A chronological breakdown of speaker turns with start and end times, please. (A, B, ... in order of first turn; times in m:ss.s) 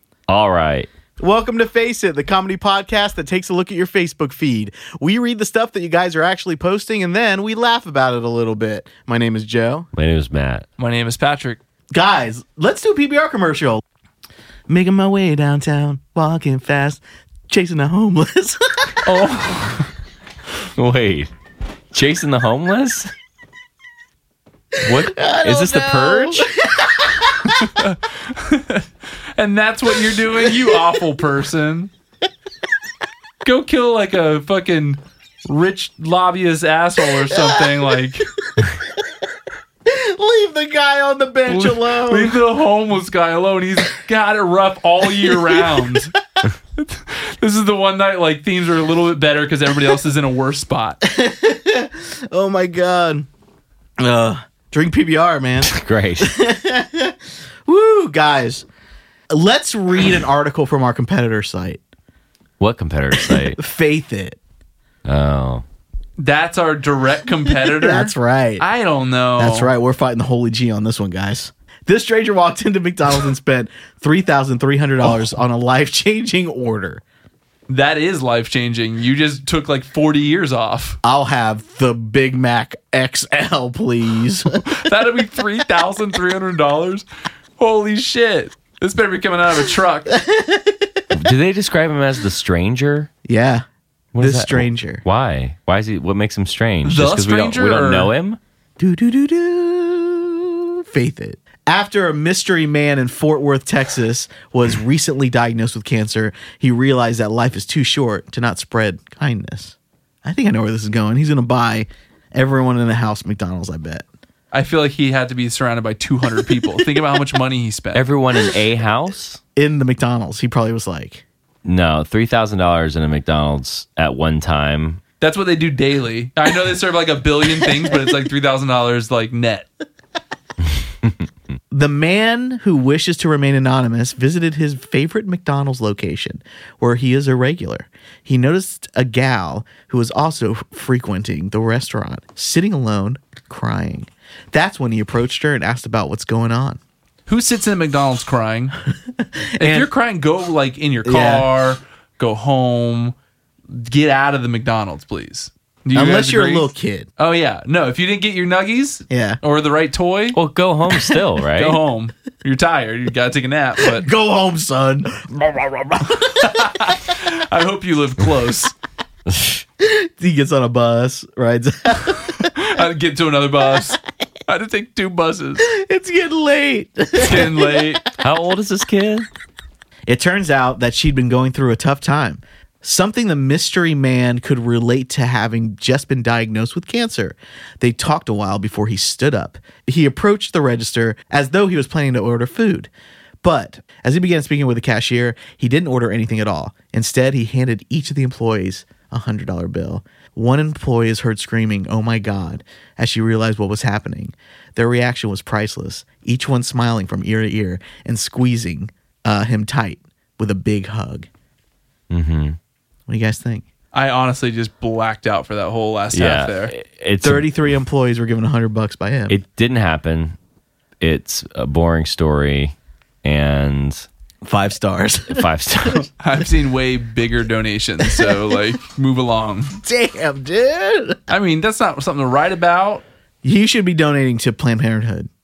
0:00.3-0:00.9 A
0:01.2-0:09.9 B
0:10.0-0:10.7 A
0:10.8-0:11.6 C
0:11.9-0:13.8 B
0:14.7-0:19.3 B
0:19.0-0:19.9 C
0:20.8-0:21.3 A
0:21.9-0:23.1 A
0:24.8-0:26.5 A
0:24.9-0:27.6 B
0:27.5-0:28.8 C
0:29.4-0:31.9 C
0:30.4-0:30.8 B
0:33.4-0:38.3 C
0:37.3-0:37.7 B
0:39.9-0:42.4 B
0:41.5-0:46.1 C
0:45.2-0:46.0 B
0:46.8-0:51.0 C
0:51.0-0:53.3 B
0:54.0-0:57.1 B
0:55.6-0:56.3 A
0:57.7-0:58.6 B
0:59.3-1:01.8 B
1:02.6-1:03.6 A
1:03.1-1:04.4 B
1:05.0-1:05.6 A
1:06.2-1:09.7 C
1:07.5-1:08.6 B
1:09.4-1:17.0 B
1:17.7-1:21.0 C
1:21.0-1:24.6 B
1:24.6-1:27.1 C
1:27.6-1:30.2 C
1:30.2-1:30.9 B
1:31.1-1:33.1 A
1:33.2-1:33.6 B
1:34.1-1:38.4 A
1:34.2-1:35.0 B
1:36.8-1:38.1 C
1:38.8-1:54.0 B
1:54.5-1:58.1 C
1:58.0-1:59.4 A
1:59.6-2:01.2 B
2:01.6-2:05.0 A
2:05.2-2:09.7 C
2:11.7-2:26.8 B
2:27.3-2:28.7 C
2:29.6-2:29.9 B
2:29.6-2:33.2 C
2:31.0-2:31.5 B
2:33.7-2:40.4 C
2:35.9-2:37.1 B
2:39.1-2:39.4 B
2:40.4-2:41.8 A
2:41.6-2:44.0 C
2:43.8-2:46.6 B
2:46.1-2:48.7 C
2:49.8-2:52.5 B
2:52.4-2:55.6 C
2:55.6-2:58.0 B
2:57.2-2:58.0 C
2:58.2-2:59.3 A
3:00.1-3:12.9 B
3:13.4-3:31.3 B
3:32.1-3:32.6 A
3:33.1-3:33.6 B
3:33.9-3:36.7 C
3:36.1-3:37.5 A
3:37.2-3:39.4 B
3:39.3-3:40.4 A
3:41.0-3:44.1 A
3:44.4-3:46.1 B
3:45.3-3:46.1 A
3:46.2-3:49.8 C
3:48.0-3:48.4 B
3:49.8-3:51.2 B
3:51.3-3:53.0 C
3:53.4-3:55.3 B